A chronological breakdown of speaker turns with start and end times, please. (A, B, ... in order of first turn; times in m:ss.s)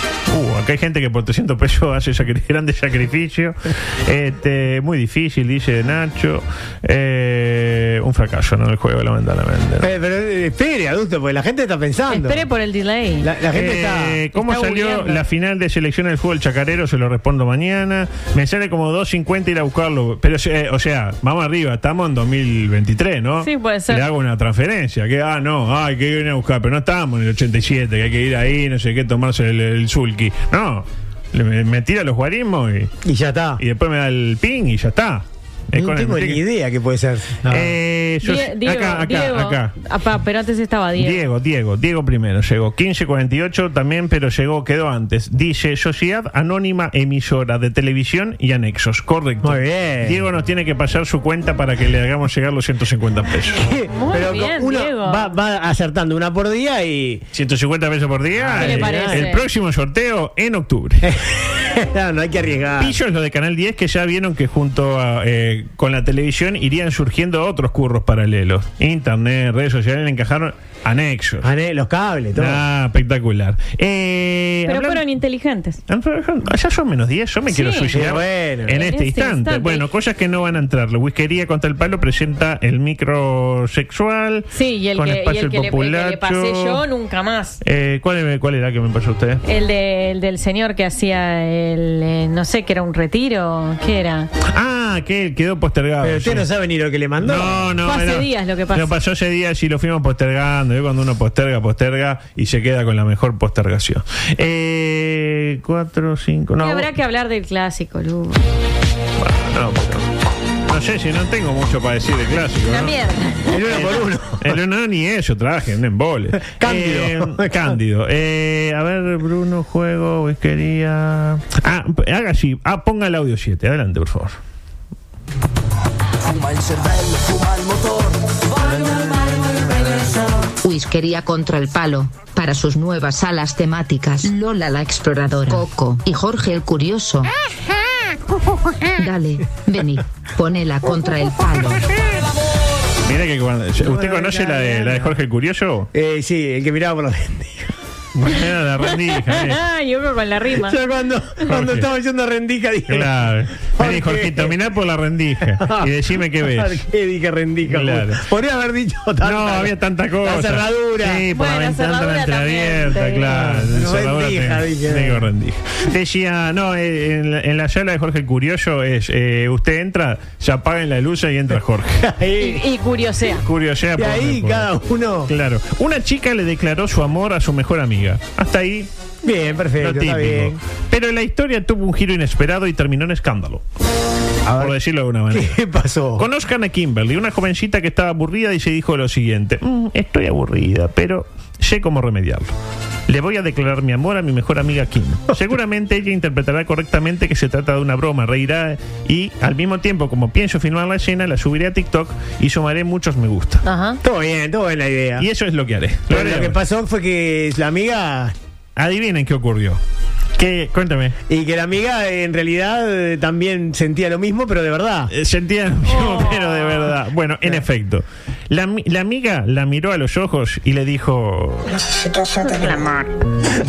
0:00.3-0:09.9 A
0:09.8-0:12.4 B
0:12.1-0:13.3 C
0:13.2-0:14.2 B
0:13.5-0:32.9 A
0:14.3-0:15.2 C
0:23.4-0:24.0 C
0:33.0-0:33.6 B
0:33.6-0:36.4 A
0:35.7-0:37.7 B
0:37.5-0:39.7 A
0:38.2-0:41.2 C
0:41.0-0:53.6 A
0:49.4-0:50.2 B
0:53.5-0:57.2 B
0:53.9-0:55.3 C
0:57.3-1:01.1 A
0:58.3-0:59.3 B
0:58.6-0:59.4 C
1:01.0-1:03.0 B
1:02.8-1:11.5 A
1:11.4-1:12.6 B
1:12.3-1:15.0 A
1:14.7-1:15.8 C
1:15.9-1:26.8 A
1:17.5-1:17.9 C
1:17.9-1:18.8 B
1:18.7-1:19.8 C
1:24.5-1:27.6 C
1:27.6-1:29.4 A
1:29.4-1:34.3 C
1:34.5-1:36.5 A
1:36.0-1:37.7 B
1:37.2-1:46.9 A
1:37.8-1:38.9 C
1:46.6-1:48.4 C
1:49.2-1:50.1 A
1:50.7-1:52.9 A
1:52.7-1:53.6 C
1:53.5-1:54.6 B
1:53.6-2:04.4 A
1:56.4-1:57.8 B
2:10.6-2:17.3 D
2:18.9-2:21.9 D
2:23.0-2:25.9 A
2:23.8-2:25.1 B
2:25.9-2:27.7 B
2:28.2-2:29.6 A
2:29.1-2:30.8 C
2:30.6-2:33.1 B
2:31.5-2:31.9 A
2:32.9-2:36.8 A
2:33.8-2:34.5 B
2:35.5-2:41.2 B
2:37.6-2:38.2 A
2:39.2-2:52.0 A
2:41.3-2:43.3 C
2:43.3-2:45.3 B
2:52.0-2:52.6 B
2:52.4-2:53.4 C
2:53.4-2:54.7 A
2:54.0-2:55.3 B
2:55.3-2:58.9 A
2:59.2-3:00.6 B
2:59.8-3:03.6 A
3:04.4-3:04.8 B
3:04.6-3:05.6 A
3:05.3-3:06.2 B
3:06.1-3:12.5 A
3:13.1-3:23.6 A
3:23.6-3:24.0 C
3:24.0-3:25.3 B
3:25.2-3:26.6 A
3:26.1-3:28.3 B
3:28.8-3:29.8 A
3:30.4-3:31.2 A
3:31.3-3:35.1 B
3:35.1-3:41.8 A
3:35.9-3:36.9 C
3:42.4-3:43.1 C